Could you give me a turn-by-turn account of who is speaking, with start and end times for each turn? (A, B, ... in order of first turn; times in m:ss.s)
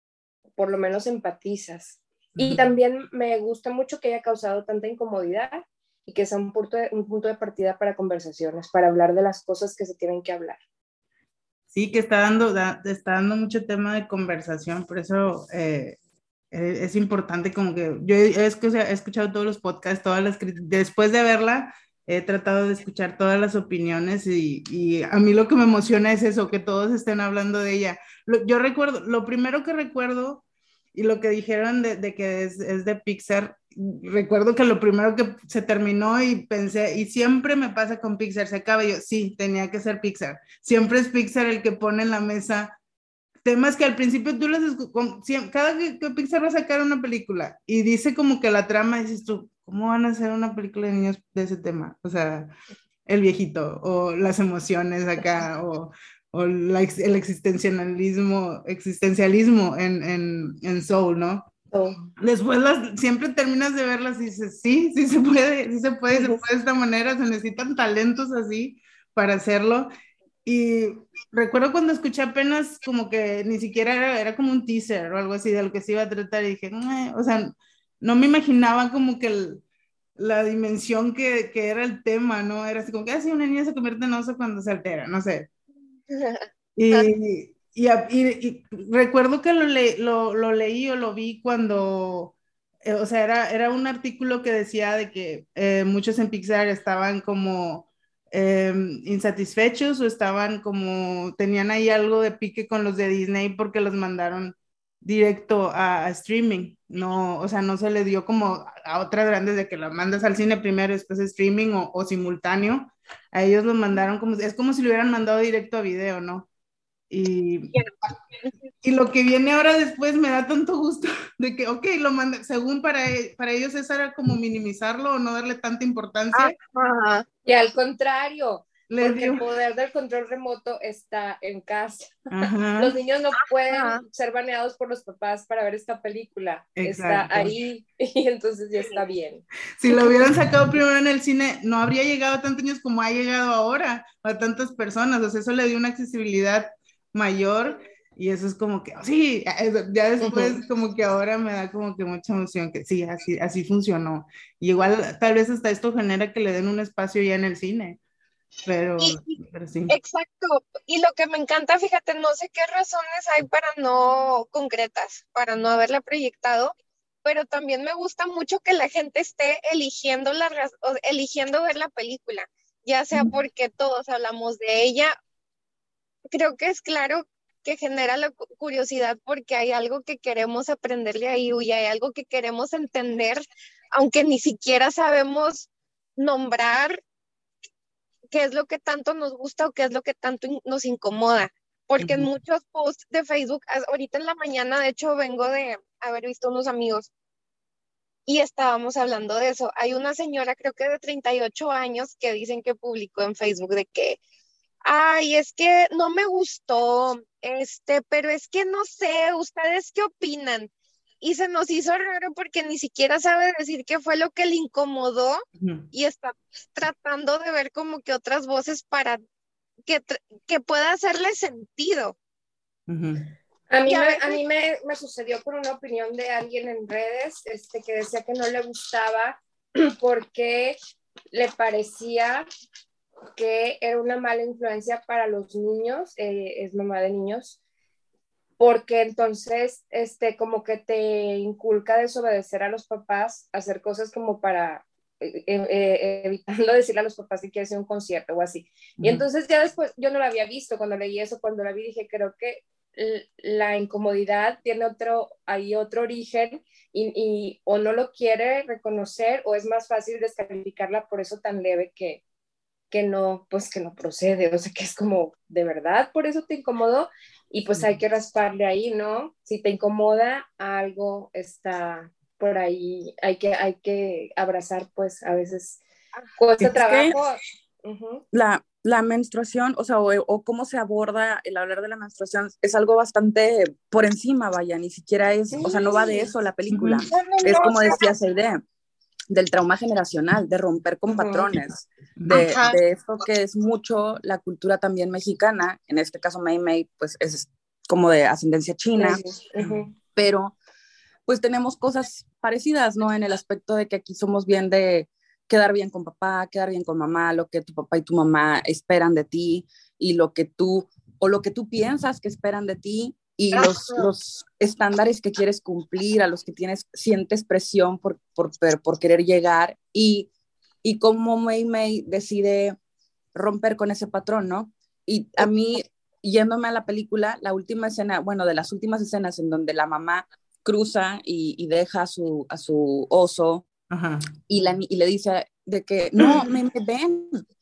0:00.6-0:10.6 A
0:02.4-0:02.6 B
0:11.7-0:16.0 B
0:16.5-0:42.8 B
0:43.4-0:52.5 B
0:53.0-1:01.5 B
1:01.7-1:02.0 A
1:02.2-1:09.9 B
1:10.4-1:19.6 B
1:20.2-1:25.5 B
1:26.1-1:27.1 C
1:26.8-1:56.5 B
1:57.1-1:57.7 B
1:58.8-2:06.6 B
2:06.3-2:07.3 C
2:07.4-2:19.4 A
2:08.9-2:09.4 B
2:12.3-2:13.0 B
2:13.7-2:14.0 C
2:16.8-2:17.5 B
2:19.8-2:38.0 B
2:30.2-2:30.6 A
2:38.6-2:40.0 B
2:39.0-2:55.1 C
2:56.3-3:07.0 C
3:08.3-3:17.1 C
3:12.0-3:12.3 B
3:18.3-3:24.2 C
3:24.8-3:39.2 C
3:35.6-3:35.9 B
3:39.8-3:42.2 C
3:42.9-3:43.3 B
3:43.7-3:50.8 A
3:43.9-3:44.4 C
3:51.3-3:52.5 A
3:53.4-3:57.6 A
3:58.6-4:22.2 A
4:09.0-4:09.2 B
4:22.9-4:35.8 A
4:36.4-4:38.2 A
4:36.6-4:37.1 D
4:38.3-4:48.6 D
4:45.5-4:46.3 A
4:46.7-4:47.0 B
4:47.1-4:48.0 C
4:49.3-4:59.2 D
4:51.1-4:51.5 A
4:52.2-4:52.5 B
4:52.3-4:52.8 C
4:59.0-4:59.9 A
4:59.6-4:59.8 B
5:00.2-5:00.6 D
5:01.3-5:20.3 D
5:13.5-5:14.1 C
5:20.8-5:22.8 D
5:23.3-5:33.7 D
5:33.9-5:34.3 B
5:34.5-5:37.4 D